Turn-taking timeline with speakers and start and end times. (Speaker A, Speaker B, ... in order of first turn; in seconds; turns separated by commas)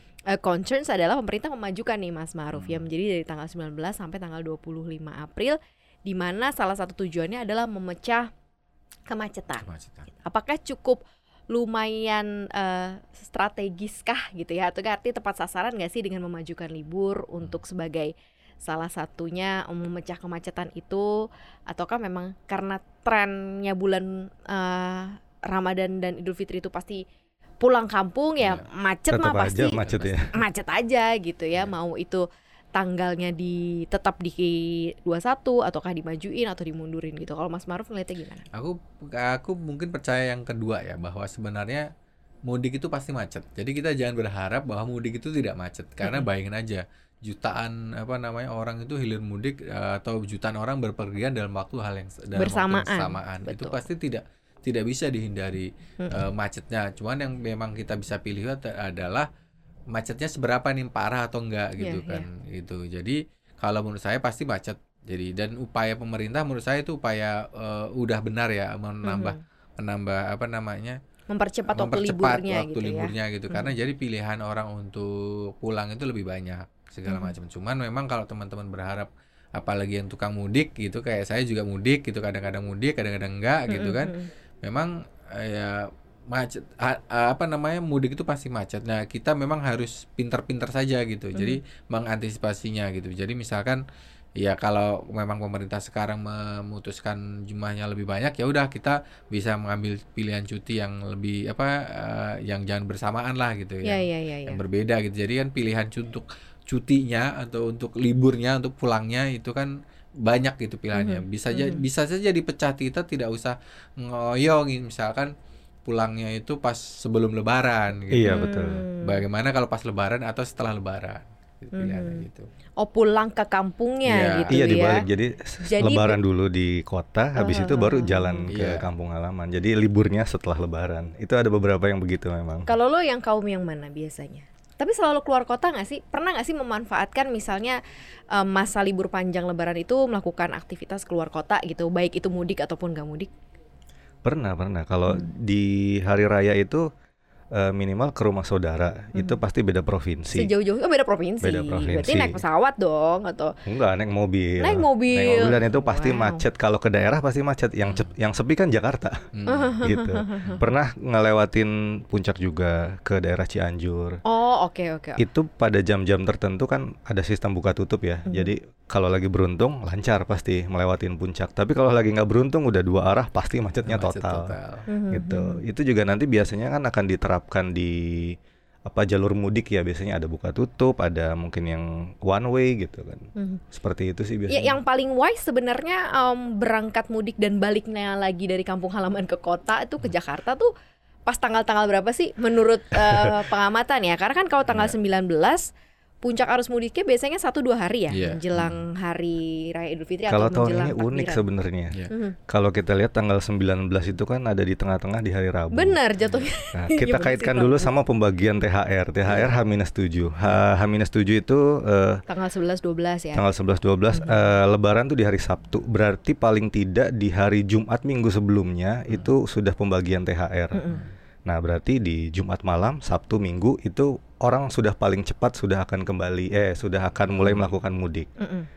Speaker A: 0.3-8.3, Speaker B: 2.5-2.9, Speaker A: 9.1-9.7, Speaker B: 9.6-10.1, Speaker A: 10.2-27.0, Speaker A: 27.6-38.5, Speaker B: 28.4-28.7, Speaker C: 29.1-30.4, Speaker B: 29.8-30.2, Speaker B: 38.5-41.9, Speaker B: 42.5-59.3, Speaker A: 52.4-53.8, Speaker B: 59.9-71.0, Speaker A: 61.8-62.3, Speaker A: 69.0-69.4, Speaker A: 71.3-73.7, Speaker B: 71.7-93.8, Speaker A: 77.1-77.3, Speaker A: 83.7-84.3, Speaker B: 94.4-115.3, Speaker A: 103.8-104.6, Speaker A: 110.9-111.8, Speaker B: 115.9-122.5, Speaker C: 118.1-118.8, Speaker A: 118.3-119.2, Speaker A: 121.8-122.3, Speaker A: 122.8-125.0, Speaker B: 124.1-124.7, Speaker C: 124.5-132.7, Speaker A: 125.7-126.2, Speaker A: 127.4-128.5, Speaker B: 128.5-128.9, Speaker A: 132.7-137.8, Speaker A: 138.3-143.3, Speaker C: 144.2-146.9, Speaker C: 147.5-150.5, Speaker A: 150.3-153.5, Speaker C: 151.4-152.4, Speaker C: 153.7-159.3, Speaker A: 154.6-156.4, Speaker B: 157.9-158.1, Speaker B: 159.3-159.7, Speaker A: 159.5-160.6, Speaker C: 159.8-164.2, Speaker A: 164.3-165.2, Speaker C: 165.2-174.6, Speaker B: 173.9-174.9, Speaker A: 174.9-175.6, Speaker C: 175.1-184.8, Speaker A: 183.4-183.6, Speaker A: 184.5-190.7, Speaker A: 191.3-195.7, Speaker C: 193.1-193.3, Speaker B: 194.7-195.0, Speaker A: 196.2-201.4, Speaker B: 198.1-198.8, Speaker C: 200.3-206.0, Speaker A: 202.1-202.4, Speaker A: 205.7-207.9, Speaker C: 206.7-212.2, Speaker A: 212.3-213.4, Speaker C: 213.3-220.9, Speaker A: 214.1-214.5, Speaker A: 220.7-221.0, Speaker C: 221.5-228.3, Speaker A: 228.4-228.7